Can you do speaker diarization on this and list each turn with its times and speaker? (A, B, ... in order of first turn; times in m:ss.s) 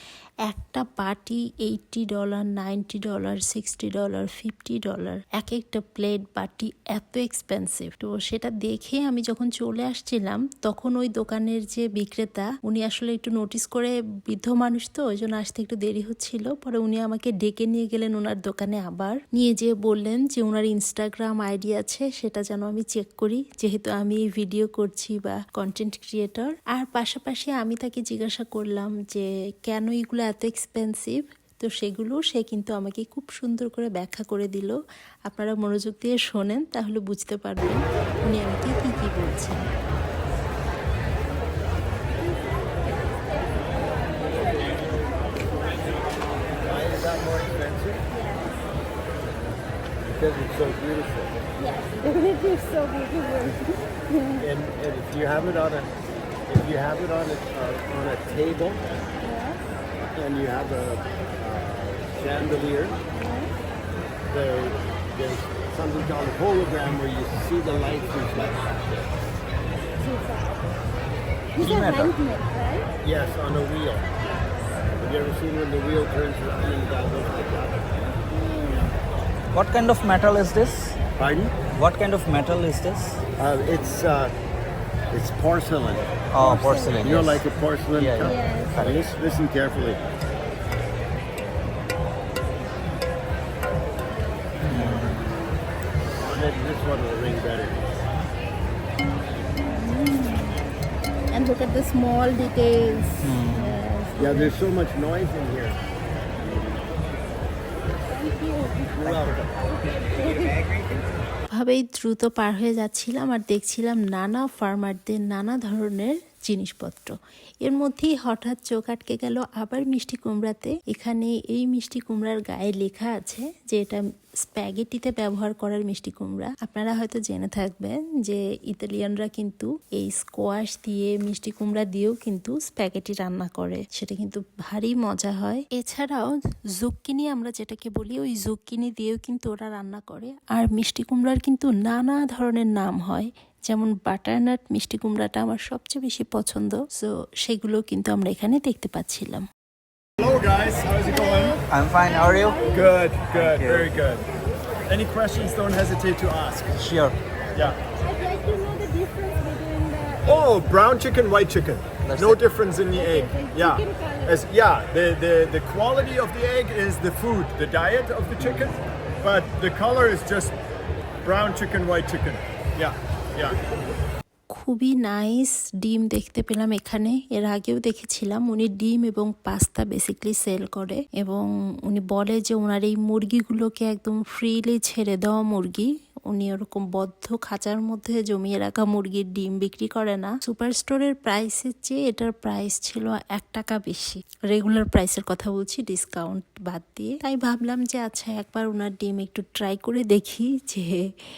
0:00.5-0:34.8 A
0:35.3-0:39.6 A
0:42.8-0:45.9 B
0:46.6-0:48.0 C
0:48.1-0:48.6 B
0:50.1-0:51.4 C
0:51.6-0:54.5 B
0:54.4-0:55.9 C
0:56.5-0:58.8 C
0:59.2-0:59.6 B
1:00.1-1:03.0 C
1:03.2-1:03.5 B
1:04.3-1:09.1 C
1:10.0-1:10.6 B
1:11.6-1:12.9 B
1:11.6-1:12.1 D
1:13.0-1:14.1 C
1:15.0-1:17.9 C
1:18.3-1:18.9 B
1:19.5-1:21.0 D
1:21.2-1:21.5 C
1:21.7-1:23.2 D
1:23.4-1:24.3 C
1:25.1-1:26.1 C
1:26.3-1:29.1 D
1:26.4-1:27.1 B
1:27.0-1:30.0 C
1:28.2-1:28.9 B
1:34.7-1:35.3 D
1:34.8-1:35.1 B
1:36.2-1:37.8 C
1:39.6-1:40.5 B
1:41.3-1:44.5 B
1:43.2-1:43.8 D
1:44.2-1:45.8 C
1:46.4-1:46.8 B
1:48.1-1:50.7 B
1:48.9-1:49.5 C
1:49.0-1:49.5 D
1:51.5-2:29.5 A
2:30.2-2:31.6 E
2:31.0-2:33.0 B
2:31.7-2:32.6 D
2:32.7-2:34.3 E
2:33.3-2:33.9 D
2:34.9-2:36.7 E
2:36.8-2:37.2 D
2:38.0-2:40.4 B
2:40.2-2:50.6 E
2:42.0-2:42.4 D
2:42.9-2:44.4 B
2:48.4-2:48.8 D
2:51.2-2:53.6 E
2:54.5-3:21.0 A